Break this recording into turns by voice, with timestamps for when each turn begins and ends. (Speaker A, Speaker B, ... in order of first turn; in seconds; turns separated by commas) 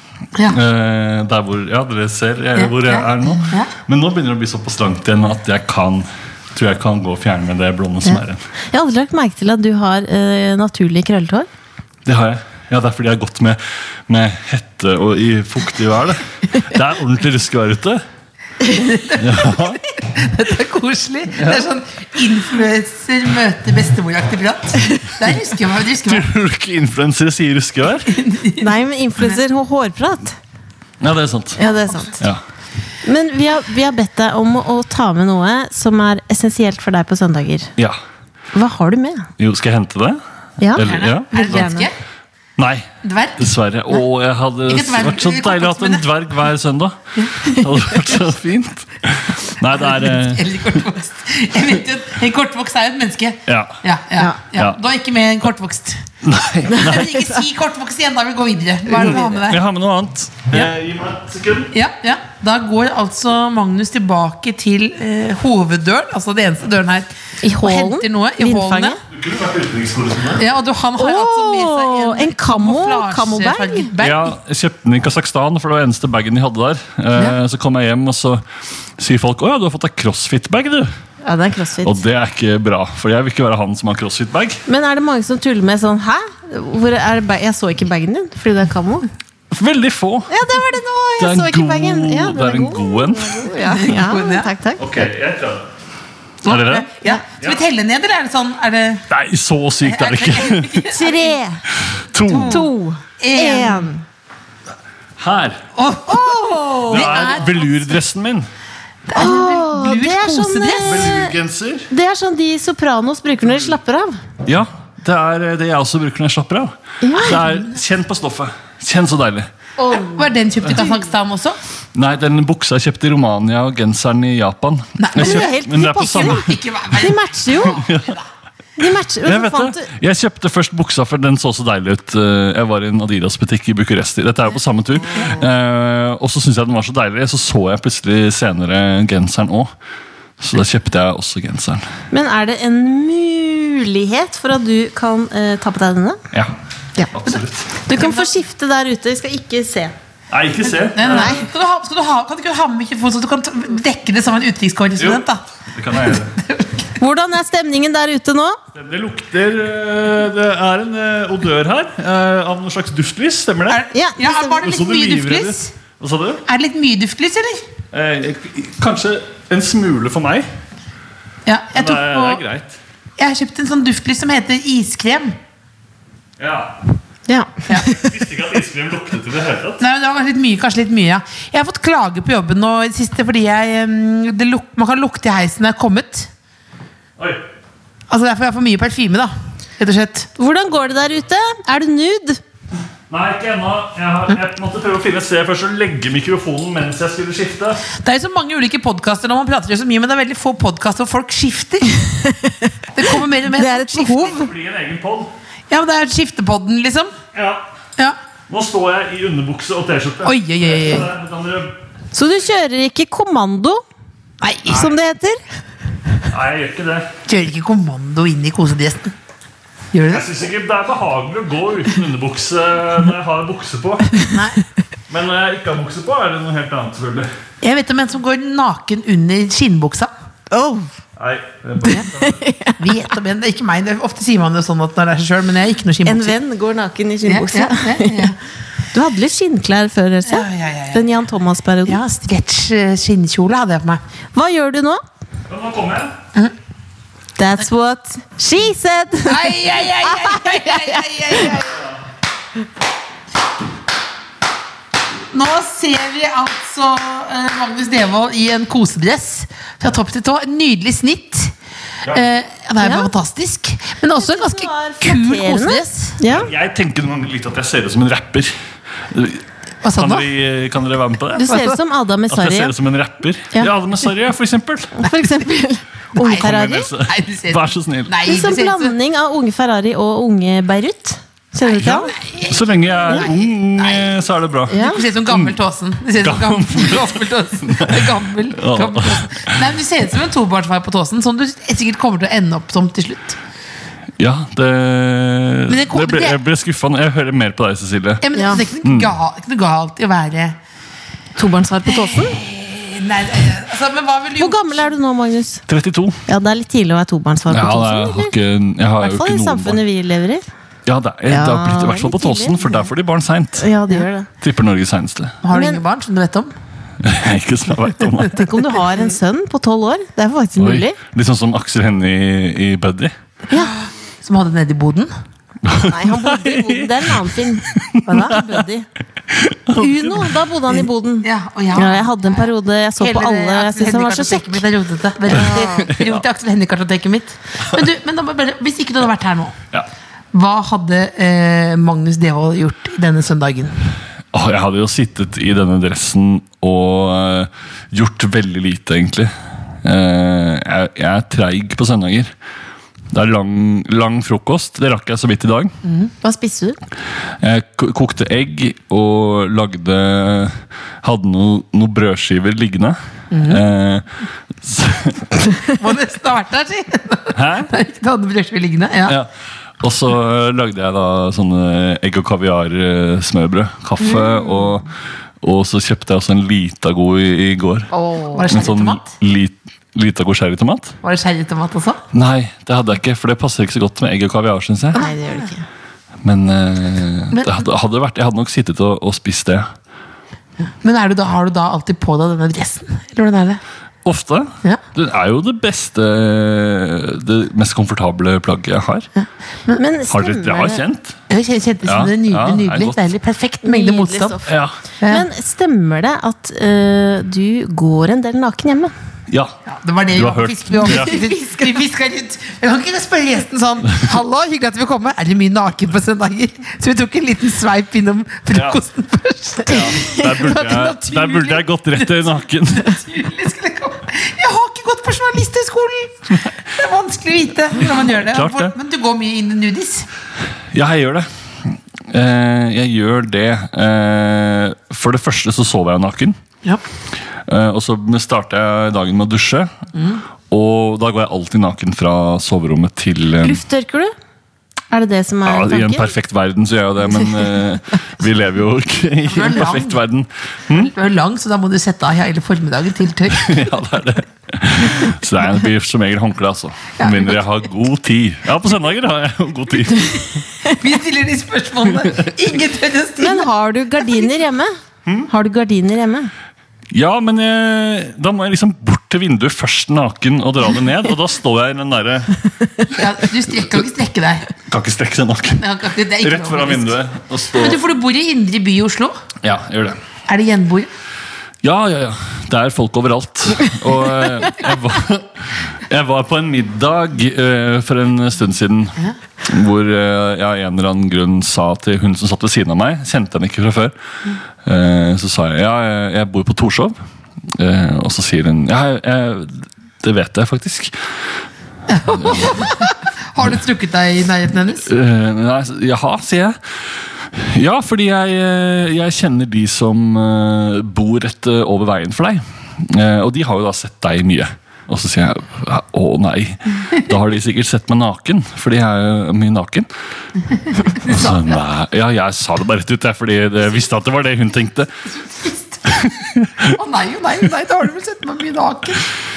Speaker A: 0.3-0.6, Speaker B: 0.4-8.4, Speaker A: 2.5-3.7, Speaker C: 8.0-11.5, Speaker B: 12.0-18.0, Speaker A: 18.6-26.3, Speaker B: 19.1-19.8, Speaker B: 21.4-21.6, Speaker B: 26.1-28.2, Speaker A: 28.1-28.7, Speaker C: 28.6-30.4, Speaker B: 31.0-31.6, Speaker C: 31.6-32.2, Speaker A: 31.6-32.1, Speaker C: 33.0-37.7, Speaker C: 38.5-39.3, Speaker B: 39.4-40.2, Speaker C: 40.6-41.9, Speaker B: 40.7-41.7, Speaker A: 40.8-41.9, Speaker B: 42.6-50.5, Speaker A: 43.0-43.5, Speaker A: 44.7-46.1, Speaker A: 49.7-59.6, Speaker B: 53.5-53.7, Speaker B: 56.2-57.1, Speaker C: 56.9-57.4, Speaker B: 58.9-61.7, Speaker A: 61.7-69.0, Speaker C: 67.4-69.0, Speaker B: 69.1-70.4, Speaker A: 70.3-74.3, Speaker C: 71.0-73.9, Speaker B: 74.0-78.4, Speaker B: 79.0-80.9, Speaker C: 81.2-82.0, Speaker B: 81.8-84.6, Speaker C: 84.7-89.1, Speaker B: 89.5-90.3, Speaker C: 90.3-94.8, Speaker B: 91.2-93.5, Speaker A: 93.4-94.5, Speaker B: 94.8-95.7, Speaker B: 96.4-97.6, Speaker A: 96.4-99.0, Speaker B: 99.1-100.8, Speaker A: 99.8-101.4, Speaker C: 100.9-101.6, Speaker B: 101.8-102.7, Speaker A: 102.2-103.9, Speaker C: 102.5-104.0, Speaker B: 105.2-105.6, Speaker A: 105.7-107.9, Speaker C: 106.1-107.4, Speaker B: 106.9-108.5, Speaker A: 109.1-111.2, Speaker C: 109.1-111.3, Speaker B: 110.8-111.9, Speaker C: 111.9-114.2, Speaker B: 114.5-119.5, Speaker C: 117.0-117.4, Speaker A: 117.3-117.8, Speaker C: 119.8-121.0, Speaker A: 119.9-121.6, Speaker B: 121.9-126.6, Speaker A: 125.0-128.2, Speaker C: 125.2-127.8, Speaker B: 127.7-128.2, Speaker C: 128.8-129.9, Speaker B: 129.2-139.7, Speaker B: 140.4-141.8, Speaker C: 142.1-146.2, Speaker B: 147.1-147.7, Speaker C: 147.8-149.9, Speaker A: 147.9-148.3, Speaker B: 150.3-151.4, Speaker A: 150.9-155.4, Speaker C: 151.1-151.4, Speaker B: 155.0-156.3, Speaker A: 156.1-156.9, Speaker C: 157.0-158.6, Speaker B: 158.7-163.8, Speaker A: 163.7-165.7, Speaker C: 163.9-164.6, Speaker B: 164.6-166.4, Speaker A: 166.4-167.6, Speaker B: 167.9-170.5, Speaker A: 171.4-172.4, Speaker B: 171.7-172.8, Speaker A: 173.2-175.3, Speaker B: 176.4-176.8, Speaker C: 177.3-177.7, Speaker A: 177.7-178.0, Speaker B: 177.7-179.8, Speaker A: 179.8-186.3, Speaker A: 188.1-190.3, Speaker C: 190.4-192.4, Speaker B: 193.1-197.8, Speaker A: 197.9-202.0, Speaker C: 202.0-202.7, Speaker A: 202.9-204.4, Speaker C: 203.5-204.5, Speaker B: 204.1-205.3, Speaker A: 205.7-207.1, Speaker B: 207.3-207.6, Speaker B: 208.5-211.8, Speaker A: 210.2-211.1, Speaker C: 212.1-213.8, Speaker A: 214.4-214.9, Speaker C: 214.7-215.4, Speaker B: 216.3-217.1, Speaker A: 217.2-219.1, Speaker A: 219.9-220.2, Speaker B: 220.1-224.4, Speaker A: 224.2-224.6, Speaker B: 225.1-227.3, Speaker A: 227.6-230.1, Speaker C: 230.5-230.9, Speaker B: 231.2-232.4, Speaker C: 231.9-233.0, Speaker A: 232.8-236.3, Speaker C: 236.0-238.3, Speaker A: 237.2-238.4, Speaker C: 238.9-242.0, Speaker A: 240.2-241.1, Speaker A: 241.8-244.0, Speaker C: 244.3-245.0, Speaker B: 245.5-246.2, Speaker C: 247.4-251.6, Speaker A: 249.2-251.8, Speaker A: 255.3-261.5, Speaker A: 262.1-266.2, Speaker C: 262.8-263.1, Speaker C: 264.1-266.5, Speaker B: 266.3-268.5, Speaker B: 269.1-269.4, Speaker A: 269.8-270.3, Speaker B: 269.9-271.5, Speaker C: 271.4-272.7, Speaker A: 271.4-271.8, Speaker B: 272.3-274.9, Speaker C: 275.0-276.9, Speaker A: 276.1-278.9, Speaker B: 276.2-278.1, Speaker C: 278.2-282.1, Speaker A: 281.6-284.2, Speaker B: 282.5-284.8, Speaker A: 284.7-293.4, Speaker C: 284.7-285.0, Speaker B: 285.3-285.5, Speaker B: 286.2-289.6, Speaker B: 294.2-298.2, Speaker A: 295.7-296.4, Speaker A: 298.2-300.6, Speaker C: 298.3-298.6, Speaker B: 298.8-299.1, Speaker C: 301.4-302.4, Speaker A: 301.9-304.8, Speaker C: 304.4-305.6, Speaker B: 305.7-306.2, Speaker C: 306.3-308.3, Speaker B: 307.5-309.8, Speaker C: 309.0-310.4, Speaker B: 310.9-313.7, Speaker C: 311.3-312.9, Speaker C: 313.6-314.3, Speaker B: 314.4-315.4, Speaker A: 315.4-316.5, Speaker C: 315.5-315.8, Speaker B: 317.0-318.5, Speaker C: 318.3-320.9, Speaker B: 320.6-323.1, Speaker A: 323.5-325.1, Speaker B: 325.6-327.2, Speaker C: 325.8-328.9, Speaker B: 327.8-328.4, Speaker A: 328.1-328.5, Speaker B: 329.3-330.3, Speaker C: 329.7-334.6, Speaker A: 331.2-339.6, Speaker C: 335.3-335.9, Speaker B: 335.4-336.1, Speaker A: 340.3-343.7, Speaker B: 344.3-349.3, Speaker B: 349.8-352.3, Speaker B: 353.1-355.7, Speaker C: 356.2-356.8, Speaker B: 357.4-364.1, Speaker A: 363.3-363.6, Speaker B: 364.6-365.3, Speaker A: 365.7-369.2, Speaker B: 367.3-367.7, Speaker B: 369.1-374.9, Speaker C: 374.2-374.7, Speaker B: 375.4-377.9, Speaker C: 377.9-378.4, Speaker A: 378.2-379.0, Speaker B: 378.5-380.9, Speaker A: 381.0-382.0, Speaker B: 382.1-385.0, Speaker A: 384.9-385.5, Speaker C: 384.9-385.6, Speaker B: 386.2-389.7, Speaker A: 387.3-387.6, Speaker A: 390.8-393.6, Speaker B: 394.0-399.1, Speaker A: 399.1-399.8, Speaker C: 399.8-400.8, Speaker B: 400.1-401.2, Speaker A: 401.3-404.4, Speaker B: 401.9-403.0, Speaker C: 403.6-404.5, Speaker B: 404.4-404.7, Speaker A: 405.0-405.2, Speaker C: 405.0-408.9, Speaker A: 409.6-430.1, Speaker B: 410.1-411.2, Speaker B: 419.6-422.9, Speaker B: 427.8-428.7, Speaker B: 430.7-436.4, Speaker B: 437.4-439.7, Speaker B: 440.5-443.6, Speaker C: 443.4-444.1, Speaker C: 444.9-446.1, Speaker B: 445.4-450.9, Speaker A: 449.2-450.0, Speaker A: 450.7-453.5, Speaker B: 453.3-460.4, Speaker A: 457.0-457.4, Speaker A: 460.8-464.3, Speaker C: 463.2-464.7, Speaker C: 465.3-466.3, Speaker B: 466.9-472.8, Speaker A: 472.9-474.5, Speaker B: 474.6-475.6, Speaker A: 475.6-477.0, Speaker B: 476.2-477.8, Speaker A: 477.5-479.2, Speaker B: 479.4-480.0, Speaker A: 480.3-480.9, Speaker B: 481.6-493.9, Speaker B: 494.6-496.9, Speaker B: 497.5-500.9, Speaker A: 501.9-504.9, Speaker B: 502.1-502.7, Speaker B: 504.9-506.6, Speaker B: 507.2-519.9, Speaker B: 520.8-524.9, Speaker A: 520.8-521.4, Speaker A: 525.3-526.1, Speaker B: 526.0-526.7, Speaker A: 526.6-529.0